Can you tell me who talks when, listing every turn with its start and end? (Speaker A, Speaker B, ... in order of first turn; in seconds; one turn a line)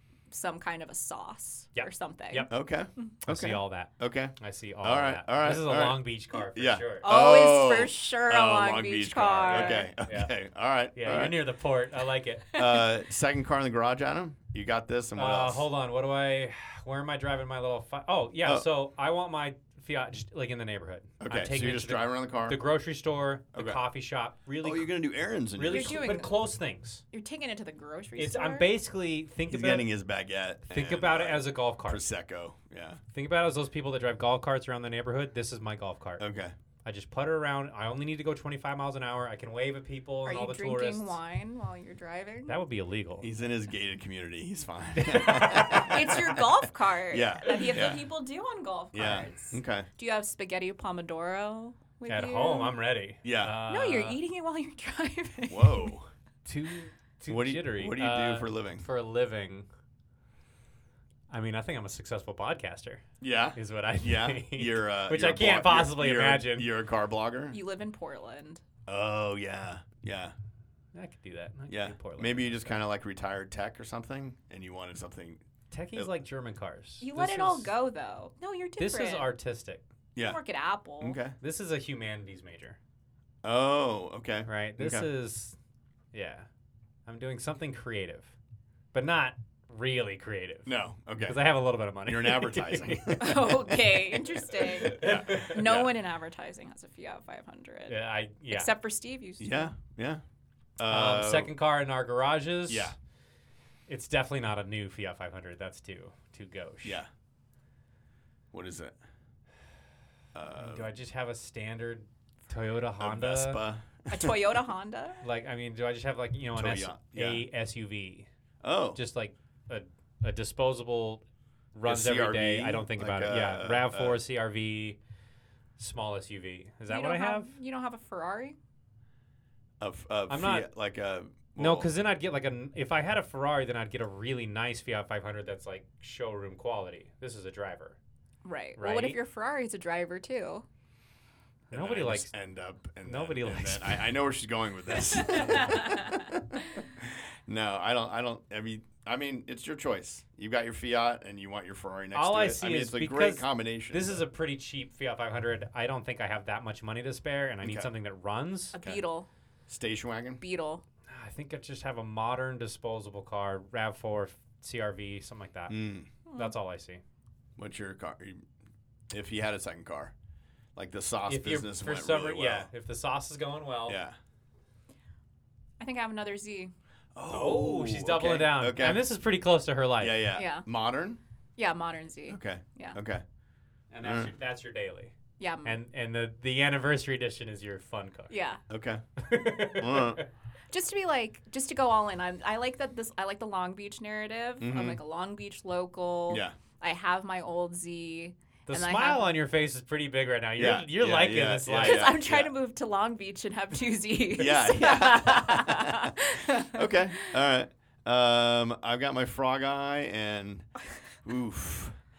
Speaker A: 0.3-2.5
Speaker B: 1.8-2.5
Speaker C: 2.5-11.4
Speaker B: 3.3-7.1
Speaker A: 7.0-9.9
Speaker B: 9.5-10.3
Speaker B: 10.9-12.6
Speaker C: 12.5-15.7
Speaker B: 15.2-24.9
Speaker C: 21.2-22.6
Speaker C: 23.5-23.8
Speaker C: 24.6-26.2
Speaker B: 25.6-27.0
Speaker A: 25.7-26.4
Speaker A: 27.1-28.7
Speaker B: 28.2-29.9
Speaker C: 29.5-33.0
Speaker B: 30.7-32.0
Speaker B: 33.1-36.2
Speaker C: 36.2-36.5
Speaker B: 36.9-41.2
Speaker A: 40.3-42.6
Speaker B: 42.5-43.3
Speaker C: 43.2-46.5
Speaker B: 45.0-45.9
Speaker A: 45.7-52.8
Speaker C: 47.1-48.0
Speaker C: 48.9-49.9
Speaker B: 52.1-54.2
Speaker C: 53.2-53.5
Speaker A: 53.7-55.9
Speaker C: 55.5-56.1
Speaker B: 56.5-59.7
Speaker C: 57.3-58.9
Speaker B: 61.3-66.7
Speaker C: 63.2-67.6
Speaker A: 67.5-68.6
Speaker C: 68.9-70.3
Speaker B: 70.9-72.8
Speaker C: 71.7-75.4
Speaker B: 75.7-77.7
Speaker A: 77.0-79.3
Speaker B: 78.8-79.8
Speaker A: 80.2-81.2
Speaker C: 81.0-81.4
Speaker B: 81.4-82.8
Speaker C: 83.4-85.1
Speaker B: 84.5-85.6
Speaker B: 86.1-86.5
Speaker B: 87.1-88.3
Speaker B: 88.9-93.2
Speaker C: 90.7-91.4
Speaker C: 92.0-93.9
Speaker A: 93.2-99.7
Speaker B: 94.9-95.6
Speaker C: 95.0-95.9
Speaker B: 97.9-98.7
Speaker C: 99.4-100.2
Speaker C: 100.8-101.5
Speaker B: 100.9-103.0
Speaker C: 102.7-103.0
Speaker B: 103.9-107.0
Speaker C: 106.8-107.1
Speaker C: 108.5-109.0
Speaker C: 110.3-110.9
Speaker B: 110.6-113.6
Speaker C: 113.0-114.6
Speaker A: 114.1-115.2
Speaker B: 115.2-118.3
Speaker C: 116.5-117.5
Speaker C: 118.6-119.0
Speaker B: 119.0-121.2
Speaker B: 121.7-125.0
Speaker C: 121.9-124.2
Speaker B: 125.8-127.5
Speaker A: 126.9-128.6
Speaker C: 129.8-131.9
Speaker B: 130.3-130.7
Speaker B: 131.6-138.0
Speaker A: 138.4-140.7
Speaker B: 138.8-139.2
Speaker B: 141.7-142.3
Speaker C: 141.7-154.2
Speaker B: 143.1-144.1
Speaker A: 145.1-146.8
Speaker B: 145.3-145.9
Speaker B: 152.2-158.8
Speaker C: 157.6-157.9
Speaker A: 158.7-159.3
Speaker C: 159.7-160.4
Speaker A: 160.4-160.8
Speaker B: 161.1-165.8
Speaker C: 165.7-166.1
Speaker A: 166.3-166.6
Speaker B: 166.3-167.0
Speaker C: 167.6-168.4
Speaker C: 169.1-170.1
Speaker C: 170.8-172.7
Speaker B: 171.3-174.0
Speaker C: 173.9-174.2
Speaker A: 175.8-176.7
Speaker C: 177.2-179.1
Speaker B: 177.3-180.2
Speaker C: 180.0-181.2
Speaker A: 180.3-180.7
Speaker A: 181.6-183.0
Speaker C: 182.3-183.2
Speaker B: 183.9-185.1
Speaker C: 184.0-184.3
Speaker A: 185.4-185.8
Speaker B: 185.7-188.3
Speaker A: 188.3-188.6
Speaker C: 188.7-189.0
Speaker B: 189.2-190.2
Speaker C: 189.6-190.2
Speaker A: 190.7-199.3
Speaker C: 194.6-195.0
Speaker C: 196.3-196.6
Speaker B: 198.7-202.2
Speaker C: 200.6-202.5
Speaker A: 201.7-207.3
Speaker C: 204.3-210.7
Speaker C: 211.2-212.0